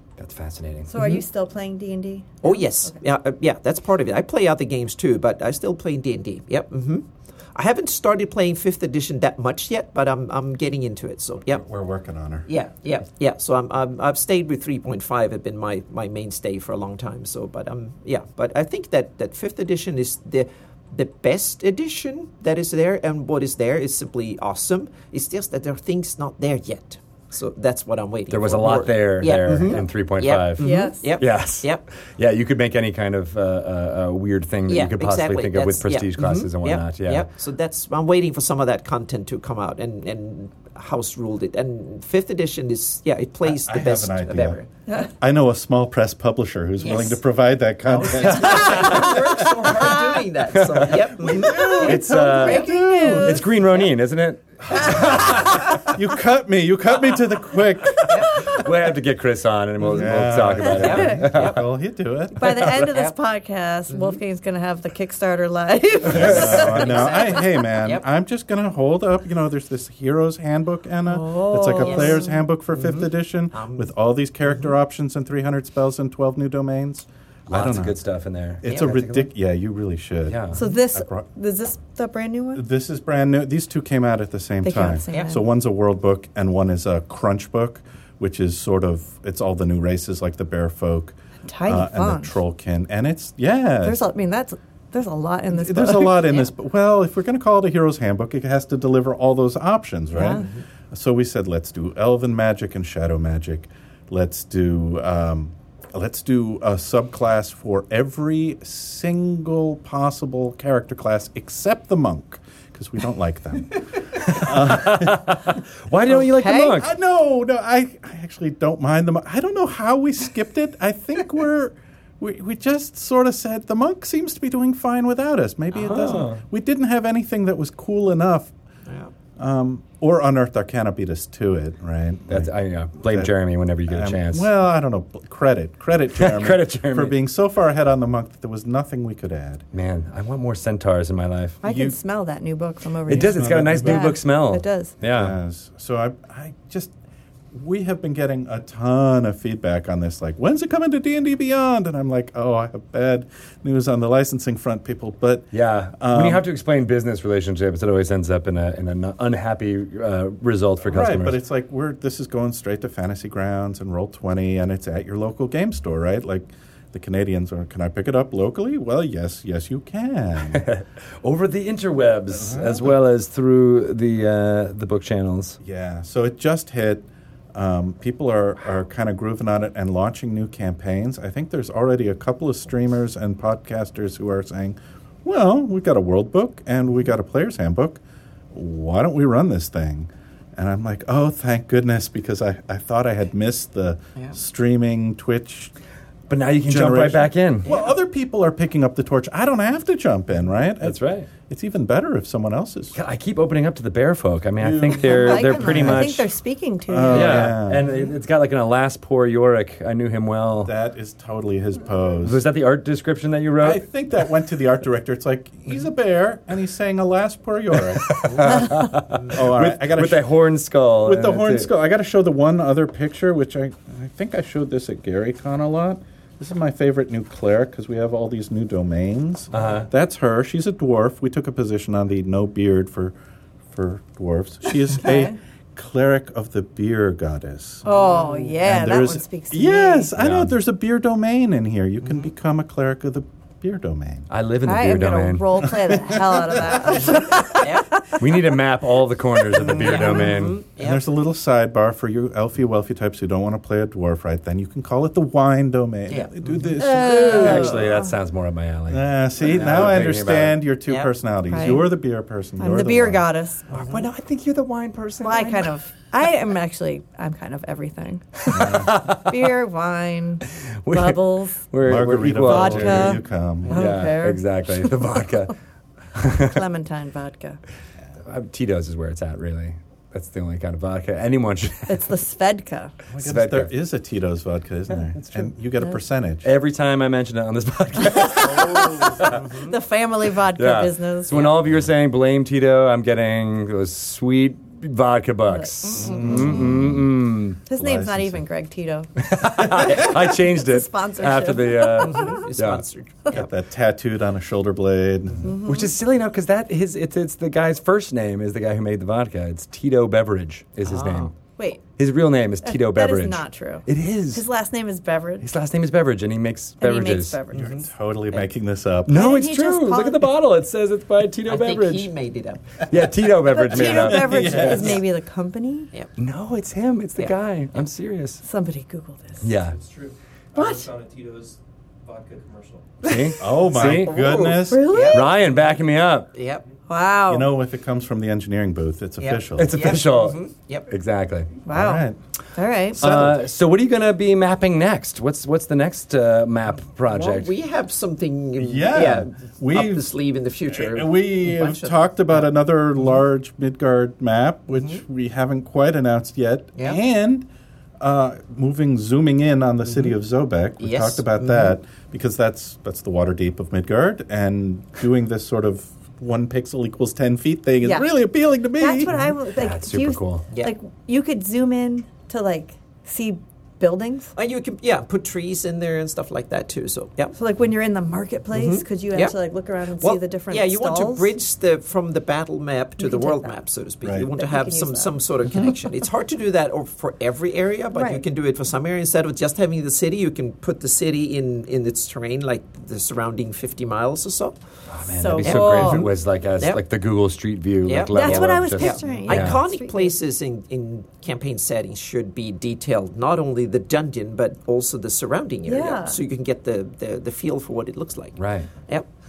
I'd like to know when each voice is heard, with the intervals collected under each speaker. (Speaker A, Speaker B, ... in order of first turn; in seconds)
Speaker A: 0.2-0.9, 28.3-37.3, 50.5-51.1, 51.8-55.7, 58.0-61.6, 66.1-66.6, 77.5-79.3, 80.3-80.6, 114.1-116.9, 125.8-126.4, 132.3-134.5, 136.1-137.2, 139.7-141.6, 143.1-145.3, 155.5-161.4, 170.5-175.6, 196.3-197.7, 200.8-201.3, 202.9-206.2, 207.1-210.7, 212.2-213.8, 217.9-221.7, 229.5-229.9, 240.2-240.6, 244.3-245.6, 248.1-250.6, 257.0-260.6, 263.7-265.7, 268.4-269.5, 270.8-275.5, 276.1-276.6, 278.2-282.1, 283.2-283.7, 286.4-289.4, 290.6-297.6, 299.2-302.8, 305.5-311.3, 312.0-314.4, 315.4-317.4, 319.1-322.1, 322.9-325.0, 326.2-328.4, 329.4-329.8, 333.0-334.2, 335.1-336.3, 339.6-341.5, 343.0-347.5, 369.6-370.4, 394.9-399.6, 408.4-408.7
Speaker B: 0.9-2.9, 30.6-31.1, 51.5-53.4, 60.9-61.2, 62.3-67.5, 71.0-72.4, 80.5-82.6, 84.6-85.4, 91.5-92.4, 93.8-96.5, 100.1-100.4, 116.2-116.7, 141.6-144.9, 204.9-207.5, 235.0-235.3, 237.8-240.1, 244.7-248.2, 256.8-258.1, 261.5-261.9, 262.6-263.7, 265.2-271.7, 272.4-275.2, 276.3-277.6, 281.9-282.9, 288.4-291.6, 295.5-296.7, 297.6-302.4, 305.4-305.9, 312.6-315.4, 316.8-317.7, 319.1-320.3, 323.5-325.9, 328.4-329.4, 330.6-330.9, 333.1-333.4, 334.7-335.3, 336.9-337.5, 341.6-343.0, 367.8-368.1, 368.8-374.3, 377.4-381.3, 383.0-383.5, 384.3-385.1, 387.9-388.2, 395.1-396.1, 398.1-400.1, 405.6-406.2
Speaker C: 1.0-1.2, 2.4-11.6, 12.5-31.8, 34.7-44.7, 46.8-47.2, 47.8-52.4, 58.0-58.4, 60.8-61.6, 62.8-63.1, 63.9-64.2, 66.2-68.0, 71.8-72.2, 72.7-73.9, 74.4-74.7, 78.7-79.0, 85.1-85.3, 125.9-126.2, 128.9-129.1, 197.7-197.9, 218.5-219.3, 237.9-238.5, 242.0-242.3, 247.0-248.0, 249.7-251.0, 256.1-256.7, 260.9-261.1, 263.7-264.0, 289.2-289.7, 302.0-303.5, 310.8-311.3, 317.5-318.4, 321.4-323.1, 323.7-324.8, 327.2-327.8, 333.8-335.3, 336.3-336.6, 339.2-340.9, 347.1-352.5, 359.9-360.1, 360.8-361.7, 374.3-377.4, 378.5-379.4, 380.0-394.6, 395.4-396.8, 397.8-409.1
Speaker D: 11.5-12.5, 43.4-49.9, 51.2-53.4, 54.7-58.6, 59.9-62.8, 66.1-78.0, 78.6-81.2, 82.5-94.0, 95.5-115.5, 116.7-128.5, 129.4-133.3, 133.9-139.6, 141.6-141.9, 143.1-144.1, 145.1-146.9, 147.5-156.4, 160.8-170.6, 172.3-172.9, 175.6-188.0, 188.5-195.7, 196.7-202.9, 204.6-206.2, 206.9-207.8, 210.6-212.4, 213.6-220.3, 221.0-233.1, 233.7-237.9, 238.6-244.3, 245.9-247.0, 250.8-257.9, 258.9-263.2, 268.5-268.9, 271.8-273.8, 283.1-286.5, 296.0-297.1, 297.8-298.4, 303.3-305.6, 317.5-319.2, 324.1-325.0, 333.4-334.9, 337.3-339.8, 341.7-342.2, 342.9-343.4, 348.6-350.1, 350.7-357.5, 358.0-369.1, 384.0-384.3
Speaker E: 329.6-333.0